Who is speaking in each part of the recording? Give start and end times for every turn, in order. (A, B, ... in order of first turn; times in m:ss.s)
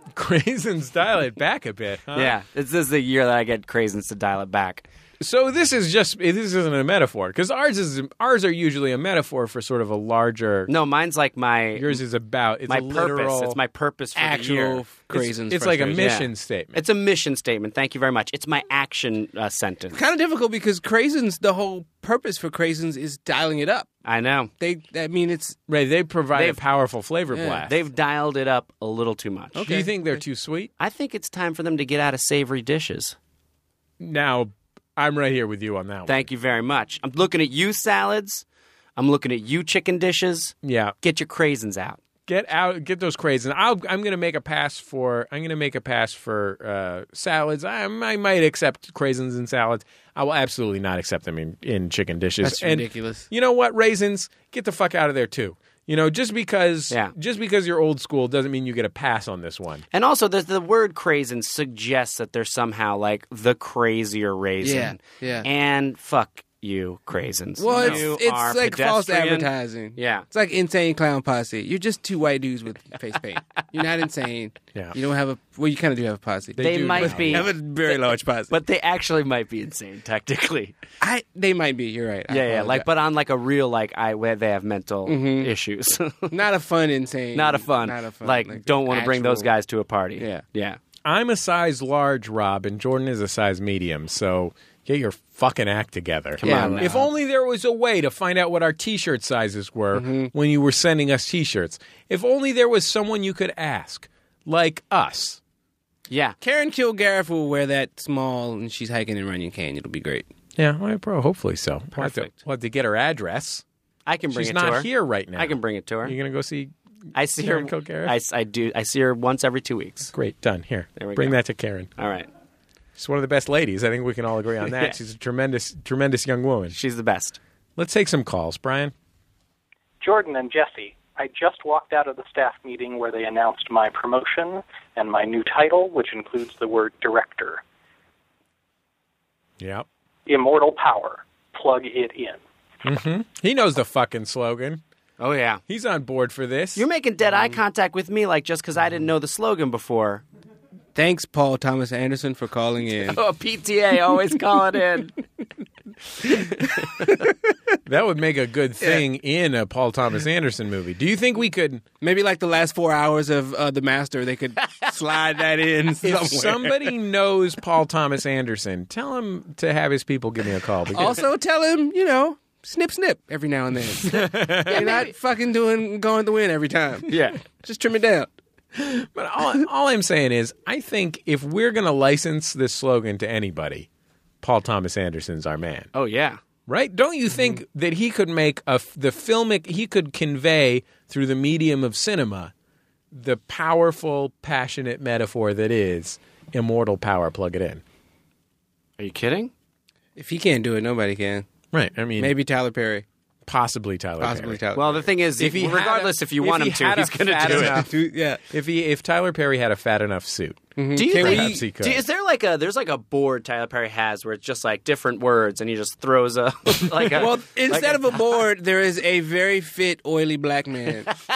0:00.1-0:02.4 A
0:02.1-0:04.9 B
0:05.2-0:10.7 A
0:10.7-0:12.0 B
0:11.7-0:13.6 A
0:12.7-0:14.8 B
0:14.2-0:16.1 C
0:15.1-0:16.8 A
0:16.0-0:20.0 B
0:19.9-0:23.9 C
0:24.0-0:24.5 B
0:24.6-0:25.6 C
0:25.7-0:27.7 A
0:27.3-0:27.6 C
0:27.6-0:29.6 B
0:29.5-0:29.9 C
0:29.6-0:30.7 A
0:30.8-0:33.2 B
0:34.0-0:36.2 A
0:36.1-0:38.4 B
0:39.0-0:42.0 B
0:40.6-0:40.9 A
0:42.3-0:59.8 A
0:52.4-0:53.3 C
0:59.9-1:10.3 B
1:04.6-1:05.4 C
1:07.6-1:18.5 C
1:07.7-1:08.0 A
1:16.6-1:17.5 A
1:16.6-1:20.8 B
1:21.0-1:22.8 C
1:22.3-1:26.4 B
1:25.0-1:25.5 C
1:26.3-1:29.5 C
1:27.3-1:30.8 B
1:30.2-1:30.4 C
1:31.0-1:45.4 A
1:36.4-1:36.9 B
1:36.4-1:37.1 C
1:39.9-1:40.3 C
1:46.1-1:46.4 B
1:46.4-1:50.3 C
1:50.6-1:53.6 A
1:52.0-1:52.3 B
1:54.0-1:56.1 B
1:54.3-1:56.7 A
1:57.1-2:00.1 B
1:57.4-1:58.1 A
2:00.1-2:01.9 A
2:01.0-2:01.4 B
2:02.0-2:02.3 B
2:03.0-2:06.8 A
2:06.7-2:07.4 B
2:07.8-2:08.9 A
2:10.0-2:17.6 D
2:19.6-2:19.8 A
2:20.3-2:22.4 D
2:22.8-2:24.8 A
2:25.2-2:25.6 B
2:25.7-2:26.8 A
2:26.8-2:30.2 B
2:30.9-2:33.2 C
2:33.1-2:35.1 B
2:37.0-2:37.3 C
2:37.8-2:41.8 A
2:42.0-2:46.9 C
2:46.0-2:51.2 A
2:50.9-2:58.3 C
2:54.0-2:55.0 A
2:54.6-2:55.1 B
2:57.1-2:57.4 B
2:58.7-3:03.9 A
3:04.4-3:05.9 A
3:05.9-3:06.4 B
3:06.7-3:12.5 A
3:13.1-3:17.8 A
3:19.0-3:19.5 B
3:20.2-3:21.5 C
3:21.7-3:22.3 A
3:22.2-3:23.0 C
3:23.4-3:24.6 A
3:24.2-3:25.1 C
3:24.7-3:27.8 B
3:25.4-3:27.9 A
3:27.4-3:28.4 C
3:28.5-3:32.0 A
3:30.8-3:31.6 C
3:30.9-3:38.1 B
3:37.1-3:41.1 C